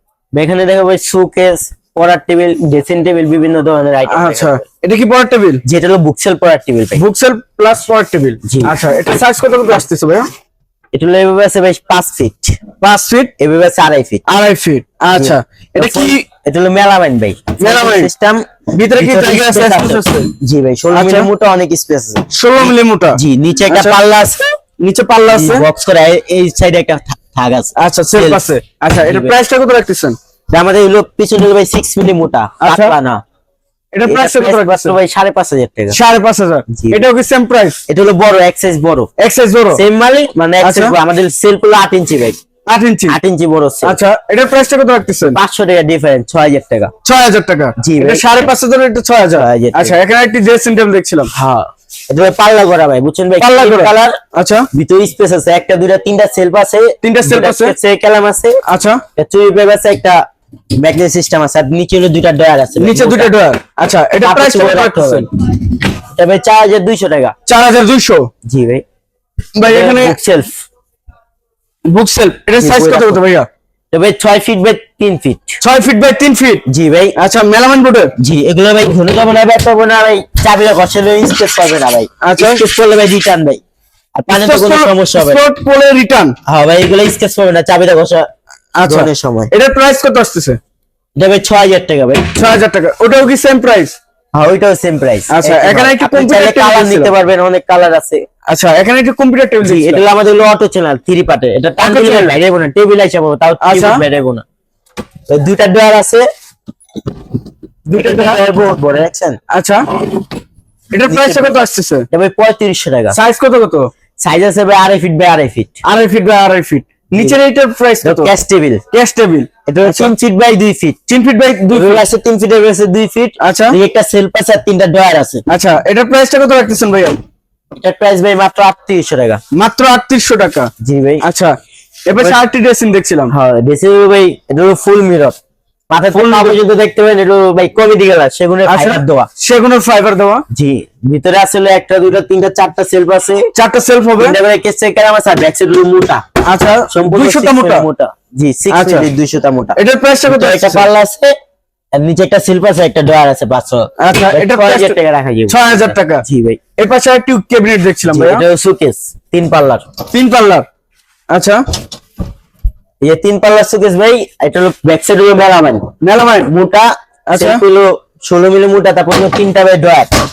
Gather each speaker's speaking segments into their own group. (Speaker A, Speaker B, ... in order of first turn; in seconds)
Speaker A: 0.3-4.6, 5.6-7.0, 8.4-8.7, 10.9-12.6, 13.4-14.2, 15.1-24.5, 25.3-28.4, 29.1-29.3, 30.5-33.2, 34.1-36.0, 36.7-37.0, 37.9-39.1, 39.7-42.4, 43.1-44.0, 45.3-46.9, 47.8-48.2, 49.4-50.0, 51.3-54.2, 54.7-58.6, 59.1-60.2, 60.8-63.3, 64.2-65.3, 66.1-67.3, 68.5-68.8, 69.6-70.7, 72.6-73.2, 73.9-75.6, 76.7-77.2, 78.2-83.6, 84.2-85.4, 86.5-88.3, 88.8-89.5, 91.2-92.3, 94.3-98.2, 99.6-104.4, 105.3-106.2, 107.9-109.4, 111.1-111.6, 112.1-113.2, 114.2-115.8, 118.0-118.8, 119.7-121.0, 121.7-125.4, 127.8-129.4, 130.8-131.2, 133.3-135.4, 135.9-139.3, 140.5-143.5, 144.2-146.2, 146.9-149.8, 150.3-151.3, 151.9-156.6, 158.1-159.8, 163.0-165.9, 166.4-170.1
Speaker B: 4.1-5.6, 7.0-10.3, 12.8-13.3, 14.2-16.2, 17.6-18.1, 18.7-20.3, 20.9-21.3, 22.3-24.0, 24.8-25.6, 27.7-30.1, 32.6-32.9, 33.9-35.0, 35.9-37.8, 39.2-39.8, 40.6-40.9, 42.6-43.2, 43.8-45.4, 47.0-51.3, 53.4-54.7, 57.0-57.7, 58.6-59.0, 62.8-65.3, 67.5-68.3, 69.5-70.2, 71.9-73.5, 75.6-76.6, 77.2-78.1, 82.2-82.6, 84.3-86.3, 88.8-90.6, 92.3-94.0, 95.3-97.1, 98.5-100.0, 101.8-102.4, 103.6-104.0, 107.9-108.4, 109.5-109.9, 110.9-112.1, 113.1-113.9, 115.8-118.3, 118.9-120.1, 121.1-122.0, 123.4-123.8, 125.5-127.2, 129.5-130.7, 131.2-133.3, 136.1-136.6, 138.7-140.4, 143.5-144.4, 146.4-147.8, 148.7-149.1, 149.8-150.9, 154.0-154.9, 155.5-156.2, 156.8-158.4, 160.1-160.7, 161.3-161.6, 166.0-166.5, 167.3-167.6